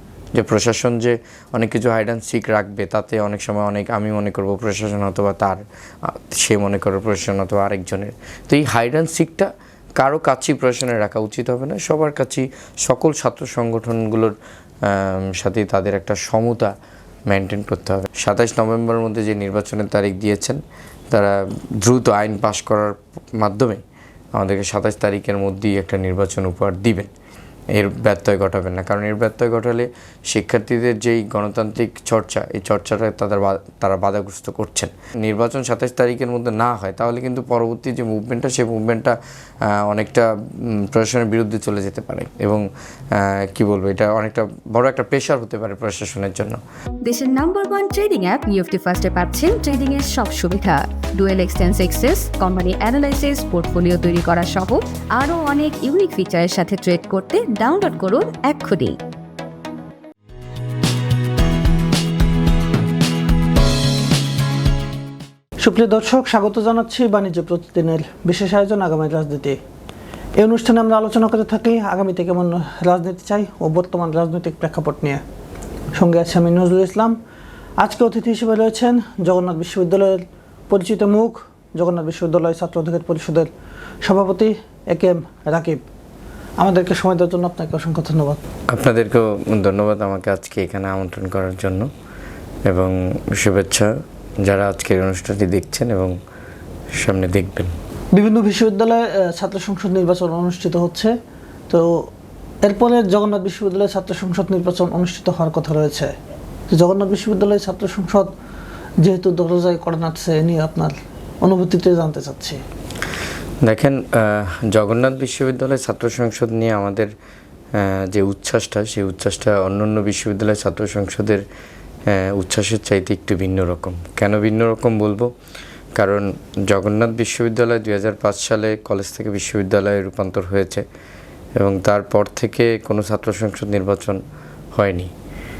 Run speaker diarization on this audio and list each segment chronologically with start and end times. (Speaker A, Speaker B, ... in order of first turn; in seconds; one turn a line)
Speaker A: 0.3-16.7
Speaker A: 17.3-20.6
Speaker A: 21.1-23.8
Speaker A: 24.4-27.1
Speaker A: 27.7-46.6
Speaker B: 47.0-59.0
Speaker C: 65.6-69.6
Speaker C: 70.4-75.2
Speaker C: 75.9-77.2
Speaker C: 77.8-83.5
Speaker C: 84.0-85.8
Speaker C: 86.6-88.4
Speaker A: 88.7-91.9
Speaker A: 92.7-96.2
Speaker A: 97.0-97.7
Speaker C: 98.1-101.1
Speaker C: 101.7-102.1
Speaker C: 102.6-106.1
Speaker C: 106.7-108.3
Speaker C: 109.0-112.6
Speaker A: 113.6-117.1
Speaker A: 117.7-121.4
Speaker A: 122.1-125.3
Speaker A: 126.0-130.8
Speaker A: 131.6-134.2
Speaker A: 134.7-135.1